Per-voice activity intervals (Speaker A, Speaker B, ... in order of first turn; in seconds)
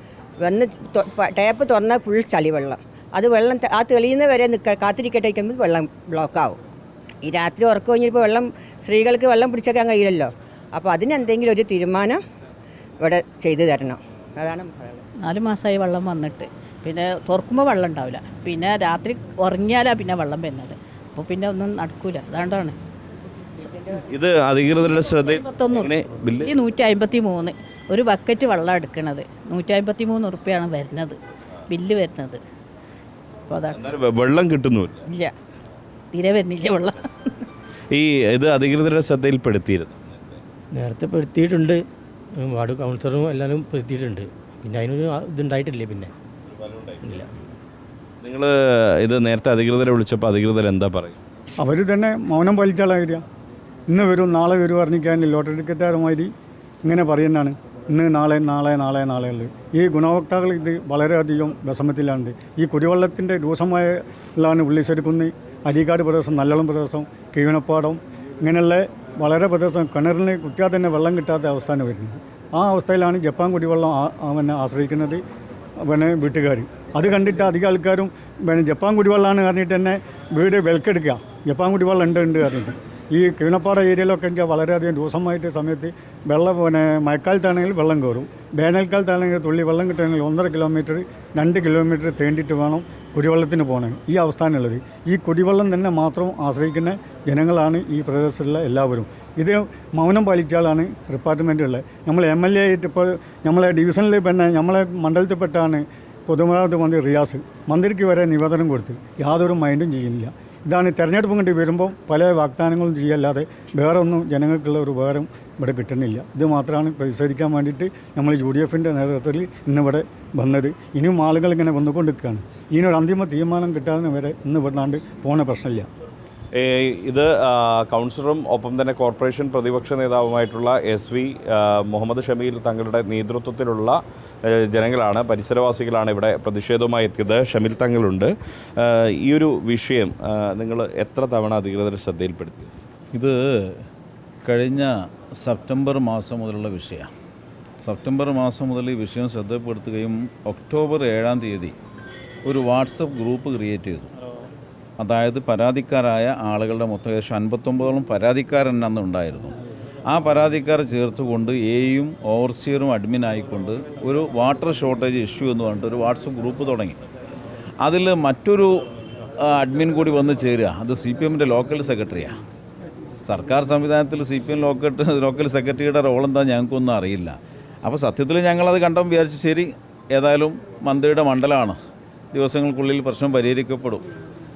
Speaker A: 0.4-6.6, 7.2-12.2, 13.0-15.1
Speaker B: 15.2-22.8, 25.3-25.9, 26.4-32.4, 33.5-33.8, 35.1-35.4, 36.1-37.4
Speaker C: 23.9-26.5, 33.7-35.0, 37.9-40.4, 46.5-47.3, 48.2-51.2, 126.5-142.7
Speaker D: 40.8-46.1
Speaker E: 51.6-53.2, 53.9-56.3, 56.9-75.2, 75.8-125.9
Speaker F: 143.1-143.8, 144.5-147.1, 147.8-151.8, 152.5-154.1, 155.0-159.6, 160.1-167.0, 167.8-168.9, 169.4-172.4, 173.2-181.8, 182.3-184.1